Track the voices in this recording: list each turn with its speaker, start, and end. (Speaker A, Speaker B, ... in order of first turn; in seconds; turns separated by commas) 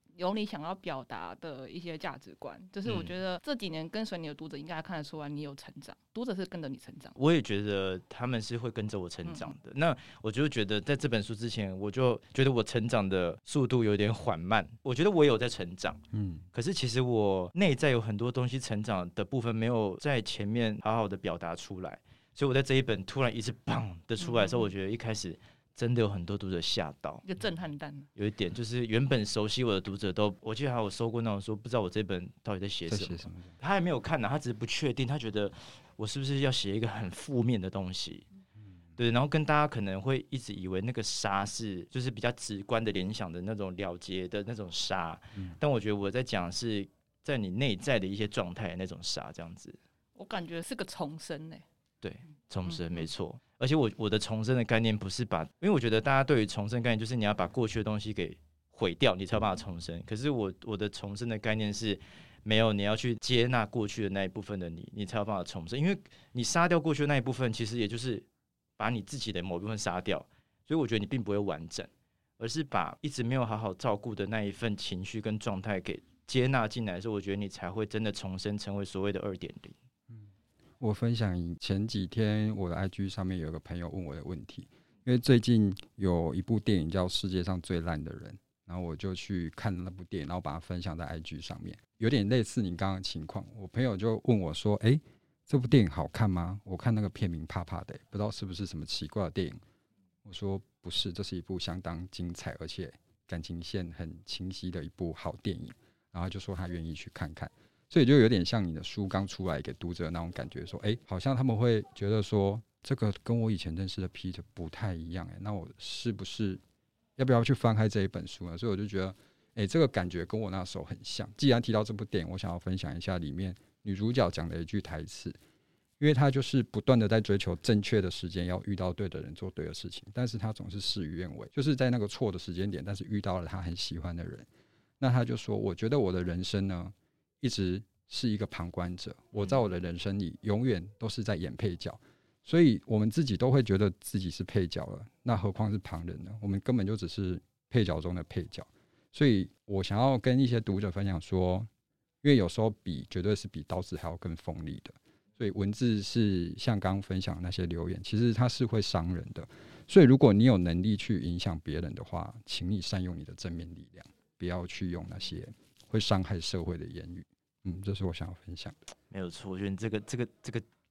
Speaker A: 0.2-7.2, Speaker B: 2.8-3.1, Speaker B: 7.2-16.0, Speaker A: 9.2-9.5, Speaker C: 16.1-16.4, Speaker B: 16.5-27.2, Speaker A: 24.2-24.6, Speaker A: 27.2-28.1, Speaker B: 28.1-38.2, Speaker C: 32.9-33.5, Speaker B: 39.0-49.8, Speaker A: 50.2-51.6, Speaker B: 52.0-68.2, Speaker B: 68.8-79.8, Speaker C: 80.8-99.6, Speaker C: 100.2-116.6, Speaker C: 117.2-125.3, Speaker C: 126.0-134.5, Speaker C: 135.0-151.7, Speaker C: 152.2-168.8, Speaker B: 169.1-170.6